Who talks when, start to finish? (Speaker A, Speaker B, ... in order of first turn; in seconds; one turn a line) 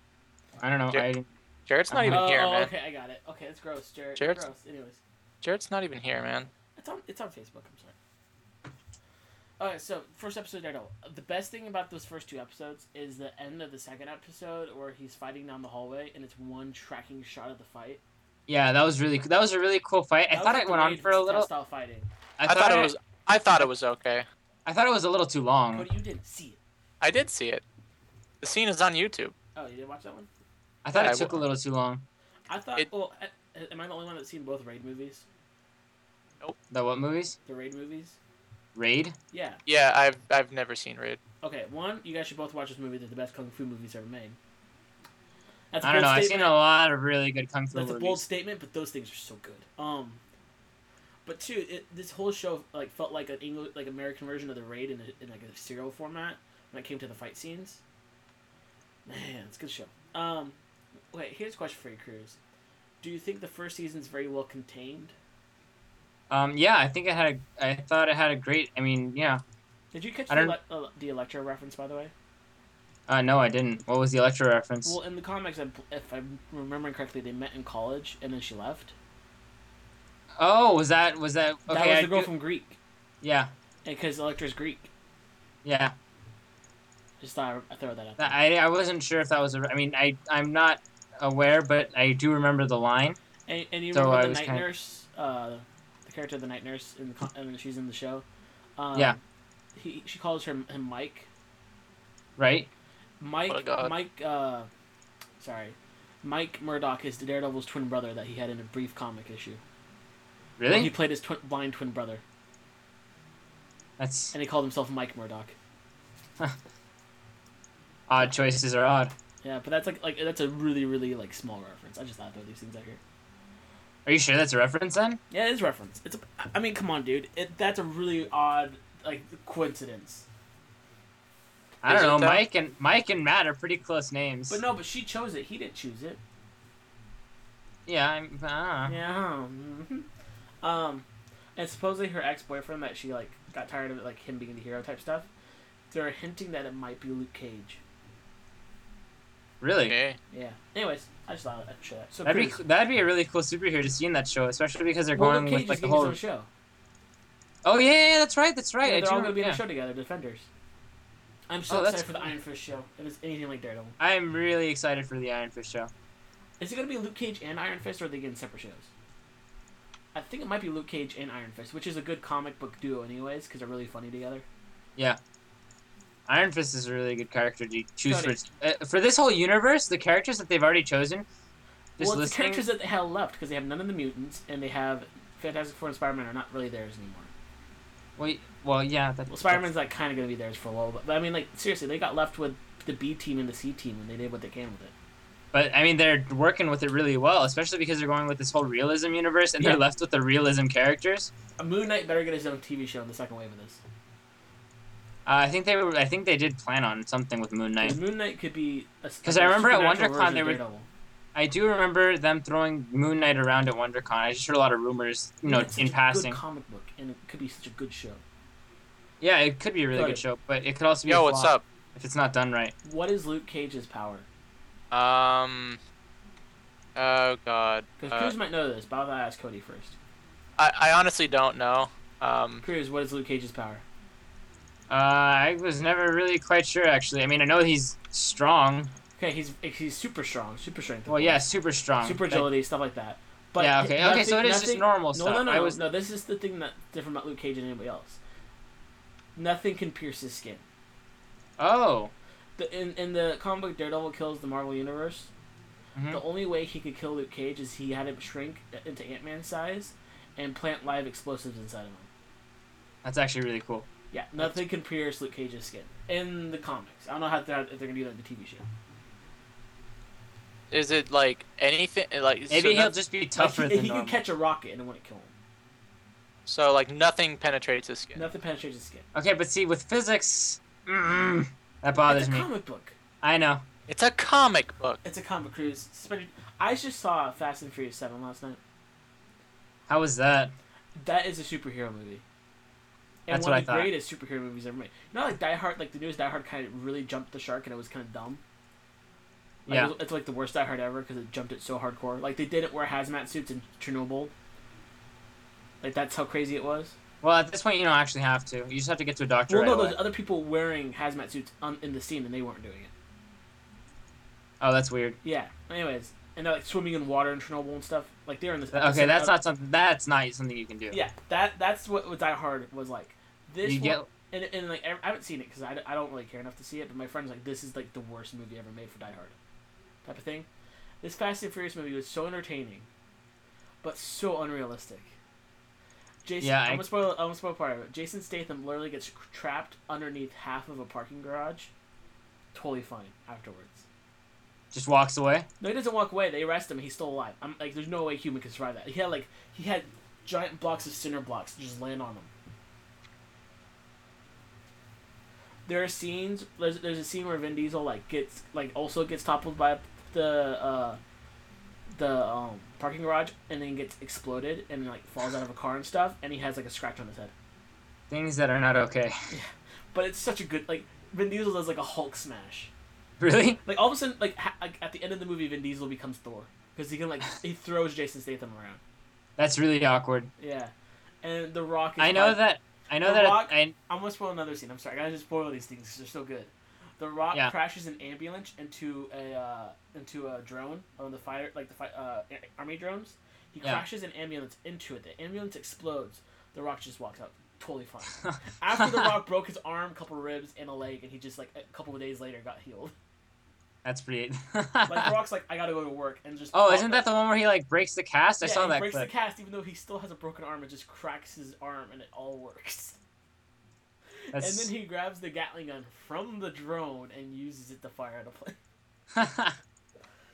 Speaker A: 0.6-1.3
Speaker B: 1.7-2.7
Speaker A: 1.9-2.3
Speaker C: 2.1-5.0
Speaker B: 4.2-4.4
Speaker B: 5.4-6.5
Speaker C: 6.8-8.0
Speaker C: 9.6-18.0
Speaker A: 18.5-21.5
Speaker C: 20.3-22.1
Speaker A: 22.4-22.9
Speaker B: 22.4-24.3
Speaker A: 24.7-25.9
Speaker C: 25.7-26.6
Speaker B: 27.0-27.6
Speaker B: 28.4-29.4
Speaker C: 29.6-30.3
Speaker A: 30.8-32.0
Speaker B: 30.9-31.4
Speaker C: 32.5-35.3
Speaker A: 36.7-37.4
Speaker C: 37.5-38.2
Speaker A: 38.8-39.1
Speaker C: 39.3-39.6
Speaker B: 39.7-41.2
Speaker C: 41.4-44.4
Speaker C: 45.7-46.6
Speaker A: 45.8-48.2
Speaker C: 47.7-50.2
Speaker C: 51.2-57.8
Speaker C: 59.1-60.6
Speaker C: 61.1-62.4
Speaker C: 63.0-65.2
Speaker A: 66.3-69.4
Speaker C: 69.9-72.1
Speaker A: 70.3-70.6
Speaker A: 73.1-75.0
Speaker C: 74.8-79.0
Speaker A: 80.4-82.3
Speaker C: 81.7-82.8
Speaker A: 83.2-83.5
Speaker C: 83.8-84.9
Speaker A: 85.6-86.0
Speaker C: 87.2-88.4
Speaker A: 88.2-93.2
Speaker C: 93.5-98.2
Speaker A: 93.9-94.7
Speaker C: 98.8-99.2
Speaker C: 99.8-101.3
Speaker A: 102.4-102.7
Speaker C: 103.2-104.7
Speaker B: 103.5-103.9
Speaker C: 105.4-109.6
Speaker A: 110.6-110.9
Speaker C: 110.7-112.2
Speaker A: 114.0-114.3
Speaker C: 114.3-115.5
Speaker A: 118.1-119.1
Speaker C: 119.4-123.0
Speaker A: 124.0-125.2
Speaker C: 125.3-130.3
Speaker A: 131.8-134.6
Speaker B: 131.9-132.4
Speaker C: 134.5-136.2
Speaker A: 137.9-139.0
Speaker C: 138.9-140.1
Speaker C: 140.6-145.3
Speaker C: 145.9-147.8
Speaker A: 149.6-150.0
Speaker B: 149.9-150.2
Speaker C: 150.3-152.6
Speaker A: 152.2-156.2
Speaker C: 155.2-156.5
Speaker A: 157.7-159.6
Speaker C: 158.8-160.5
Speaker C: 161.5-164.0
Speaker A: 161.7-162.3
Speaker A: 164.0-165.9
Speaker C: 166.6-168.9
Speaker C: 170.1-174.5
Speaker A: 176.3-181.3
Speaker C: 178.1-178.4
Speaker A: 182.0-182.6
Speaker C: 182.0-187.3
Speaker A: 188.2-189.7
Speaker C: 189.3-194.9
Speaker A: 195.5-201.3
Speaker C: 201.6-203.8
Speaker A: 205.3-208.0
Speaker C: 207.8-210.9
Speaker A: 209.2-210.6
Speaker A: 211.3-216.4
Speaker C: 215.4-218.2
Speaker A: 219.2-222.7
Speaker C: 219.9-220.2
Speaker B: 221.1-221.6
Speaker C: 222.8-224.3
Speaker B: 224.9-225.8
Speaker B: 227.0-228.3
Speaker C: 228.0-230.0
Speaker B: 230.6-232.6
Speaker C: 232.6-233.8
Speaker A: 234.9-238.9
Speaker C: 239.2-241.4
Speaker A: 241.1-242.5
Speaker C: 242.0-248.2
Speaker A: 243.6-245.8
Speaker C: 249.4-250.6
Speaker A: 251.6-252.1
Speaker C: 252.6-255.3
Speaker A: 255.9-256.2
Speaker C: 256.1-262.1
Speaker A: 263.0-263.9
Speaker C: 264.1-268.6
Speaker B: 270.7-272.9
Speaker A: 272.5-274.2
Speaker C: 273.4-275.3
Speaker B: 276.5-278.3
Speaker C: 278.2-279.1
Speaker A: 279.1-282.5
Speaker C: 282.1-283.0
Speaker A: 283.2-283.6
Speaker B: 283.9-285.0
Speaker C: 285.0-288.6
Speaker A: 289.9-290.5
Speaker C: 291.0-292.2
Speaker C: 293.3-298.4
Speaker A: 293.3-293.9
Speaker A: 299.7-299.9
Speaker C: 299.7-304.3
Speaker C: 305.8-307.0
Speaker A: 307.2-310.0
Speaker C: 309.5-312.9
Speaker A: 314.6-315.2
Speaker C: 315.2-319.4
Speaker A: 318.7-321.0
Speaker C: 320.9-329.4
Speaker A: 323.6-324.1
Speaker C: 330.1-330.5
Speaker C: 331.0-332.9
Speaker C: 333.8-335.2
Speaker C: 336.2-341.7
Speaker A: 336.4-336.9
Speaker C: 342.5-343.9
Speaker A: 344.7-345.5
Speaker C: 345.6-352.3
Speaker C: 355.7-361.0
Speaker C: 361.9-367.3
Speaker A: 368.1-369.1
Speaker C: 369.3-372.7
Speaker A: 373.2-373.6
Speaker C: 373.6-378.8
Speaker A: 379.4-380.3
Speaker C: 380.4-382.4
Speaker A: 382.0-383.8
Speaker C: 383.0-402.9
Speaker A: 398.2-399.1
Speaker A: 403.8-405.1
Speaker C: 404.9-407.1
Speaker A: 406.5-409.1
Speaker C: 408.4-413.0
Speaker C: 414.2-418.6
Speaker A: 414.3-414.7
Speaker A: 419.1-419.6